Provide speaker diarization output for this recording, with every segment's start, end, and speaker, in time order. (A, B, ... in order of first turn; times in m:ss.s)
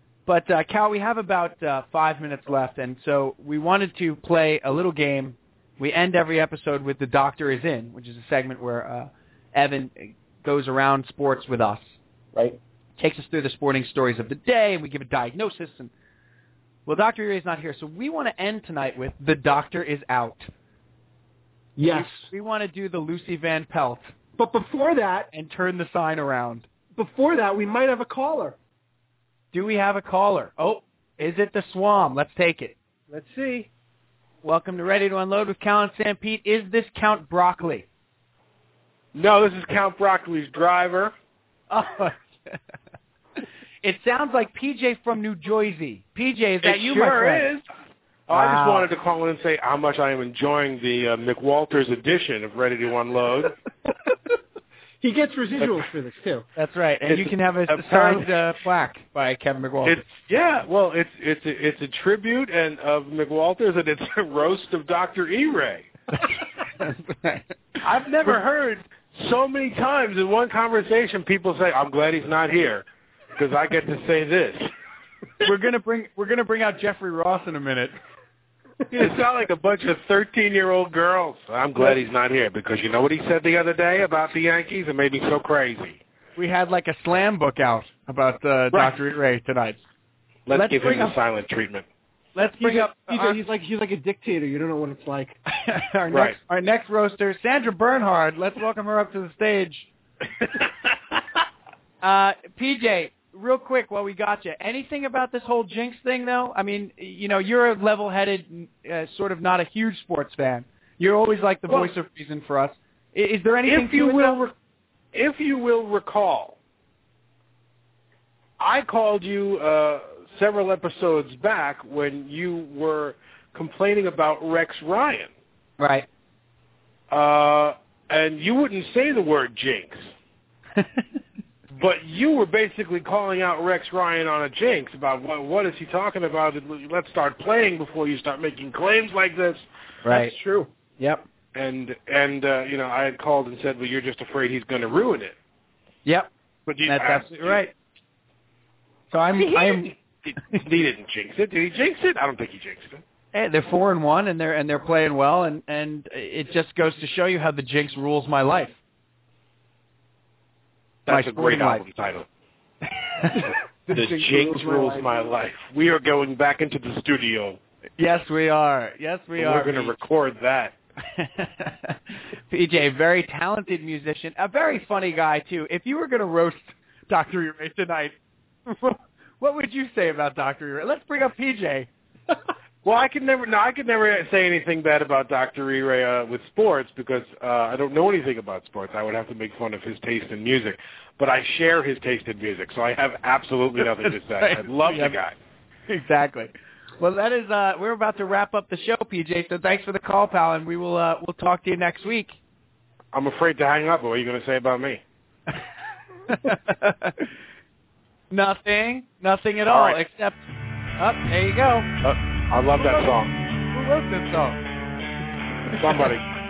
0:00.3-0:11.9 A
0:13.0-0:15.9 A
0:16.9-0:20.5 A
0:21.8-0:22.2 B
0:21.9-0:24.1 A
0:24.4-0:25.3 B
0:25.3-0:26.7 A
0:27.0-0:28.6 B
0:29.5-0:32.8 A
0:33.1-0:33.7 B
0:34.4-0:37.9 A
0:39.2-0:41.1 C
0:41.7-0:42.6 A
0:43.8-0:47.5 A
0:46.6-0:47.6 C
0:48.3-0:53.5 C
0:48.3-0:48.9 A
0:55.0-0:56.5 B
0:56.6-1:00.0 A
0:57.0-0:58.3 C
0:59.8-1:05.9 C
1:06.8-1:07.6 A
1:07.8-1:12.8 C
1:13.4-1:14.7 C
1:15.4-1:18.0 A
1:18.9-1:26.0 C
1:26.4-1:29.8 A
1:30.5-1:31.9 C
1:30.5-1:31.2 A
1:32.4-1:33.4 A
1:32.6-1:35.4 B
1:35.5-1:39.9 A
1:36.1-1:36.4 C
1:42.0-1:54.4 A
1:51.7-1:51.9 C
1:53.7-1:54.5 C
1:55.1-1:56.6 C
1:58.6-2:05.3 C
2:05.8-2:06.1 A
2:07.1-2:10.1 C
2:11.7-2:19.6 C
2:20.0-2:20.3 A
2:20.1-2:20.7 B
2:21.0-2:21.2 A
2:21.6-2:25.4 C
2:26.7-2:27.7 C
2:26.9-2:27.7 A
2:29.1-2:30.6 A
2:30.3-2:33.0 C
2:33.3-2:38.8 A
2:41.1-2:42.3 C
2:41.1-2:41.8 A
2:43.2-2:43.5 A
2:43.3-2:45.2 B
2:43.9-2:47.6 C
2:48.0-2:50.0 A
2:49.4-2:50.8 C
2:51.1-2:52.0 A
2:52.5-2:58.2 A
2:58.7-3:01.9 A
3:02.8-3:15.4 C
3:13.8-3:15.2 A
3:15.9-3:22.3 A
3:23.1-3:25.0 C
3:26.3-3:27.3 A
3:28.3-3:30.5 A
3:29.7-3:30.0 C
3:31.0-3:31.9 A
3:32.0-3:33.3 C
3:32.8-3:33.1 A
3:33.7-3:34.6 A
3:35.7-3:36.1 A
3:35.8-3:36.2 C